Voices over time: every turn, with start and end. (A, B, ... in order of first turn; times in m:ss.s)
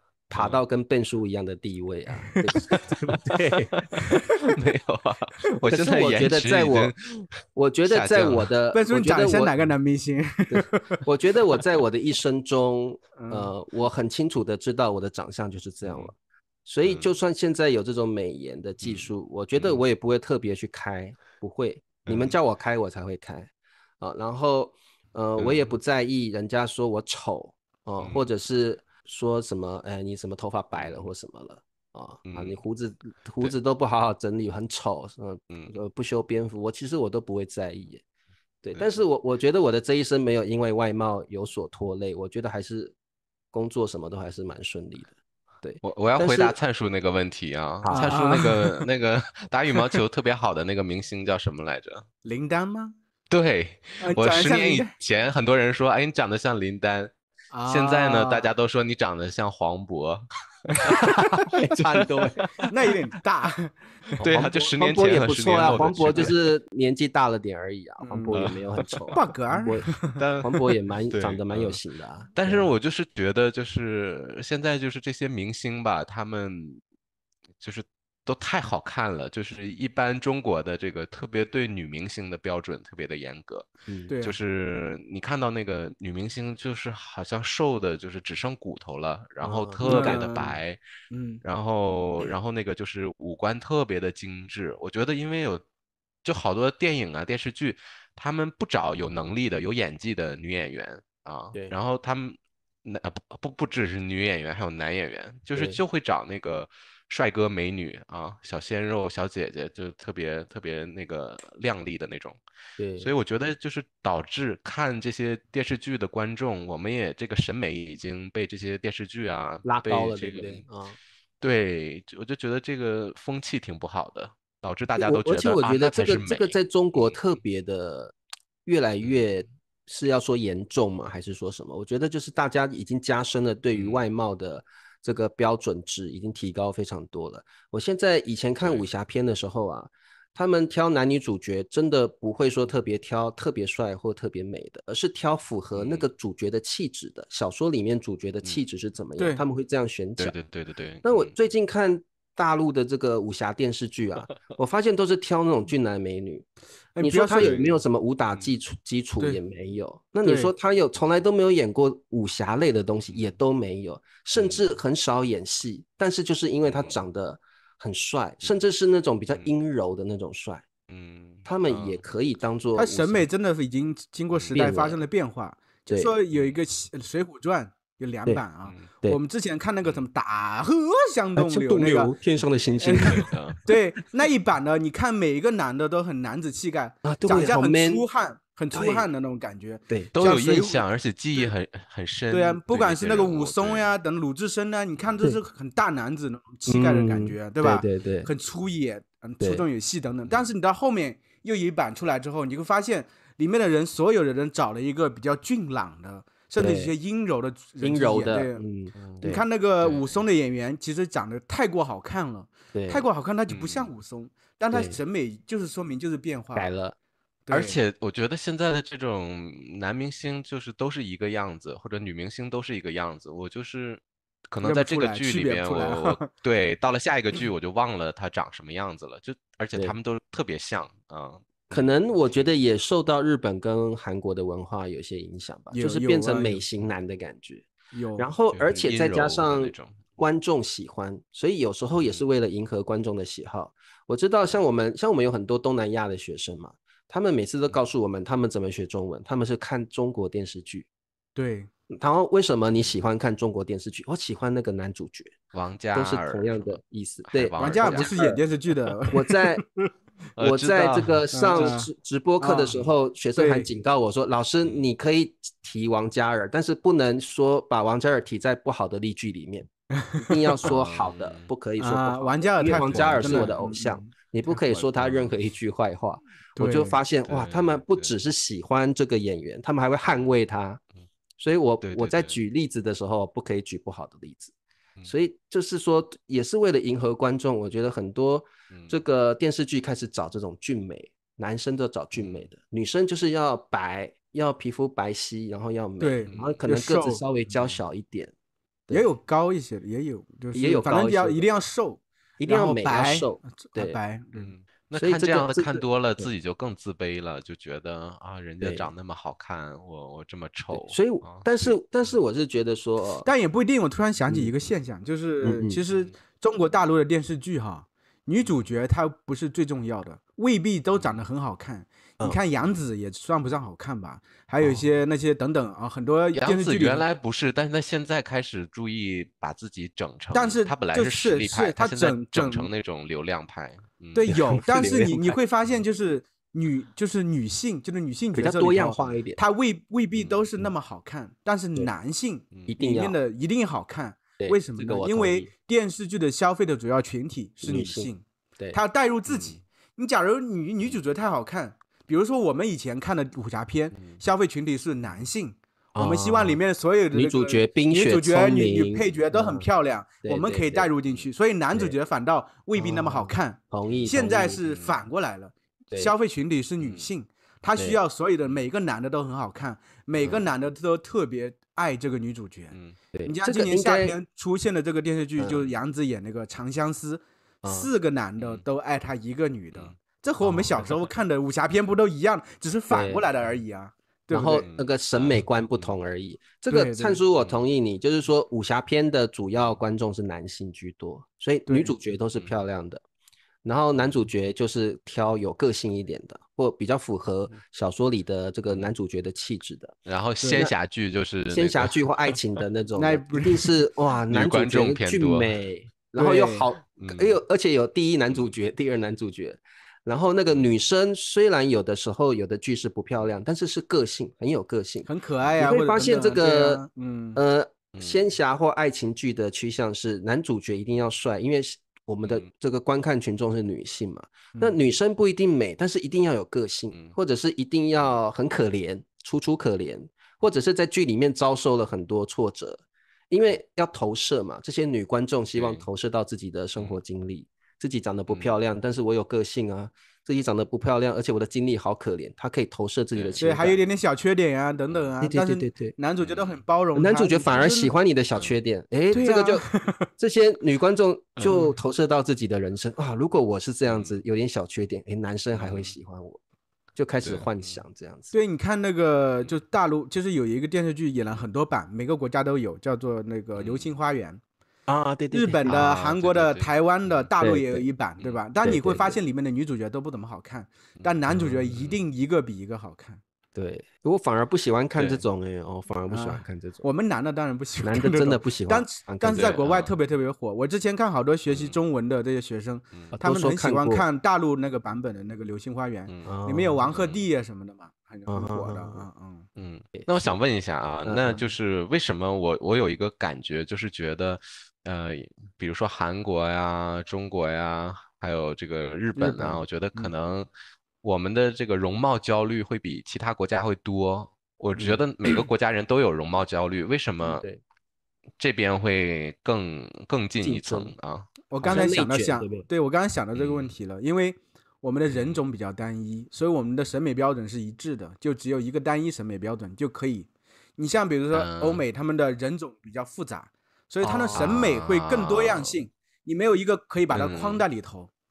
0:00.3-0:03.7 A
0:00.3-0:00.6 B
0:02.7-0:07.4 B
0:05.7-0:06.9 A
0:07.5-0:09.5 A
0:07.9-0:08.5 B
0:08.7-0:11.0 C
0:10.5-0:16.1 A
0:13.2-0:13.5 C
0:15.8-0:16.1 B
0:16.7-0:38.0 A
0:18.8-0:19.8 B
0:22.0-0:22.3 B
0:25.4-0:25.7 B
0:28.0-0:28.2 B
0:30.8-0:31.1 B
0:32.3-0:32.6 B
0:35.5-0:35.8 B
0:38.6-0:43.0 A
0:43.5-0:46.6 A
0:45.8-0:52.1 B
0:47.8-0:48.2 A
0:47.9-0:48.8 C
0:52.2-0:53.0 C
0:53.3-0:57.1 B
0:54.0-0:54.9 C
0:57.5-0:58.5 C
0:57.7-1:02.7 B
1:01.6-1:02.5 A
1:02.6-1:03.7 C
1:04.2-1:06.3 B
1:04.2-1:09.8 A
1:05.7-1:06.3 C
1:08.0-1:08.5 C
1:08.3-1:09.1 B
1:09.1-1:10.2 C
1:10.1-1:11.8 B
1:10.4-1:12.7 A
1:12.4-1:16.8 B
1:17.6-1:23.7 B
1:23.9-1:24.1 A
1:24.1-1:24.4 C
1:24.2-1:30.8 B
1:29.4-1:30.3 A
1:29.8-1:30.6 C
1:31.1-1:31.4 C
1:31.4-1:35.6 B
1:36.2-1:52.4 B
1:45.5-1:45.8 A
1:52.8-1:53.1 A
1:53.0-2:00.6 B
1:59.6-2:01.0 A
2:01.4-2:07.2 B
2:05.0-2:30.4 A
2:09.0-2:09.3 B
2:13.7-2:14.0 B
2:18.6-2:18.9 B
2:25.7-2:26.1 B
2:29.2-2:29.4 C
2:30.2-2:31.3 B
2:31.0-2:36.5 A
2:37.0-2:37.5 C
2:37.0-2:50.7 A
2:37.4-2:37.8 B
2:40.2-2:40.5 C
2:44.4-2:44.7 B
2:46.7-2:47.0 B
2:50.9-2:52.0 B
2:51.5-2:53.3 A
2:52.8-3:02.1 C
2:54.3-2:54.6 B
2:54.5-2:55.0 A
3:01.4-3:03.3 A
3:02.8-3:10.8 C
3:03.1-3:03.6 B
3:07.0-3:08.0 A
3:08.7-3:09.1 A
3:10.1-3:13.9 B
3:12.3-3:28.6 C
3:16.7-3:18.3 A
3:26.6-3:26.9 A
3:27.8-3:29.4 A
3:29.0-3:29.2 B
3:29.2-3:36.7 C
3:29.8-3:30.2 B
3:32.7-3:33.1 A
3:33.5-3:33.9 B
3:34.7-3:35.0 A
3:36.6-3:37.0 A
3:37.5-3:37.8 C
3:37.5-3:51.8 B
3:44.6-3:46.3 C
3:51.7-4:10.9 A
3:55.7-3:56.6 C
3:57.9-3:58.3 C
3:58.5-4:00.2 B
4:11.4-4:11.7 C
4:11.9-4:15.4 A
4:15.5-4:18.1 B
4:15.9-4:18.4 A
4:17.6-4:19.9 C
4:19.1-4:19.6 A
4:20.4-4:21.7 B
4:20.4-4:29.7 A
4:21.3-4:22.8 C
4:23.4-4:23.7 C
4:24.6-4:24.9 B
4:30.0-4:30.5 C
4:30.3-4:40.8 A
4:30.6-4:31.5 B
4:31.8-4:34.9 C
4:32.6-4:33.6 B
4:35.0-4:35.3 B
4:36.6-4:37.0 C
4:37.3-4:38.2 B
4:41.4-4:44.5 A
4:41.8-4:42.4 B
4:45.0-4:58.3 A
4:52.2-4:52.5 B
4:56.0-4:57.2 C
4:56.3-4:56.6 B
4:58.9-5:04.5 C
5:00.5-5:01.4 A
5:02.4-5:04.0 A
5:04.4-5:11.8 B
5:05.0-5:06.3 A
5:08.6-5:08.9 A
5:10.7-5:13.3 A
5:13.2-5:27.0 C
5:15.4-5:15.8 A
5:15.9-5:16.2 B
5:18.4-5:18.7 B
5:20.9-5:21.2 B
5:26.3-5:34.4 B
5:30.3-5:32.7 C
5:34.2-6:24.7 C
5:34.3-5:35.4 A
5:38.4-5:39.4 A
5:40.2-5:40.4 B
5:42.7-5:43.2 A
5:44.4-5:45.5 A
5:47.6-5:48.8 A
5:49.3-5:49.6 B
5:56.0-5:56.6 A
5:57.1-5:59.7 A
6:00.2-6:00.9 A
6:02.8-6:04.6 A
6:04.6-6:05.0 B
6:06.8-6:07.1 B
6:10.2-6:10.5 A
6:12.7-6:13.0 B
6:13.1-6:14.2 A
6:15.4-6:15.7 A
6:17.6-6:17.9 A
6:18.4-6:18.6 B
6:20.5-6:21.1 B
6:22.9-6:23.3 A
6:24.3-6:33.0 A
6:24.6-6:25.9 B
6:26.7-6:27.2 C
6:31.7-6:31.9 C
6:33.6-6:40.0 A
6:40.1-6:42.3 B
6:40.4-6:40.7 C
6:41.5-6:56.8 A
6:43.0-6:43.8 C
6:44.3-6:45.5 B
6:46.2-6:46.7 C
6:47.0-6:47.4 B
6:55.1-6:57.4 C
6:57.4-7:23.8 A
6:58.0-6:58.2 B
7:15.6-7:15.9 B
7:18.3-7:18.6 B
7:23.1-7:23.4 B
7:23.4-7:27.9 C
7:25.2-7:26.0 A
7:26.2-7:26.6 B
7:27.0-7:29.7 A
7:29.1-7:30.1 C
7:30.2-7:36.4 A
7:33.9-7:34.2 B
7:35.5-7:35.9 B
7:37.0-7:38.3 A
7:37.2-7:37.8 B
7:38.3-7:44.4 C
7:43.6-7:43.9 B
7:44.9-7:45.9 A
7:45.3-7:53.2 C
7:45.6-7:47.3 B
7:47.4-7:47.9 A
7:48.6-7:49.2 A
7:51.0-7:52.0 B
7:53.6-7:56.8 A
7:55.0-7:55.2 B
7:56.1-8:09.5 C
7:57.8-7:59.6 A
7:59.3-8:00.0 B
8:01.5-8:01.8 B
8:03.1-8:04.1 A
8:06.2-8:06.8 A
8:06.9-8:07.3 B
8:08.3-8:09.1 A
8:09.6-8:20.5 B
8:10.0-8:10.4 A
8:11.0-8:11.4 A
8:19.2-8:20.1 C
8:21.0-8:27.5 B
8:24.8-8:25.0 A
8:27.2-8:27.6 A
8:28.4-8:31.3 B
8:30.4-8:31.0 A
8:31.5-8:48.1 C
8:31.6-8:32.7 A
8:33.4-8:33.8 B
8:35.1-8:35.4 B
8:41.3-8:41.8 B
8:44.0-8:44.6 A
8:44.4-8:45.8 B
8:47.1-8:47.6 B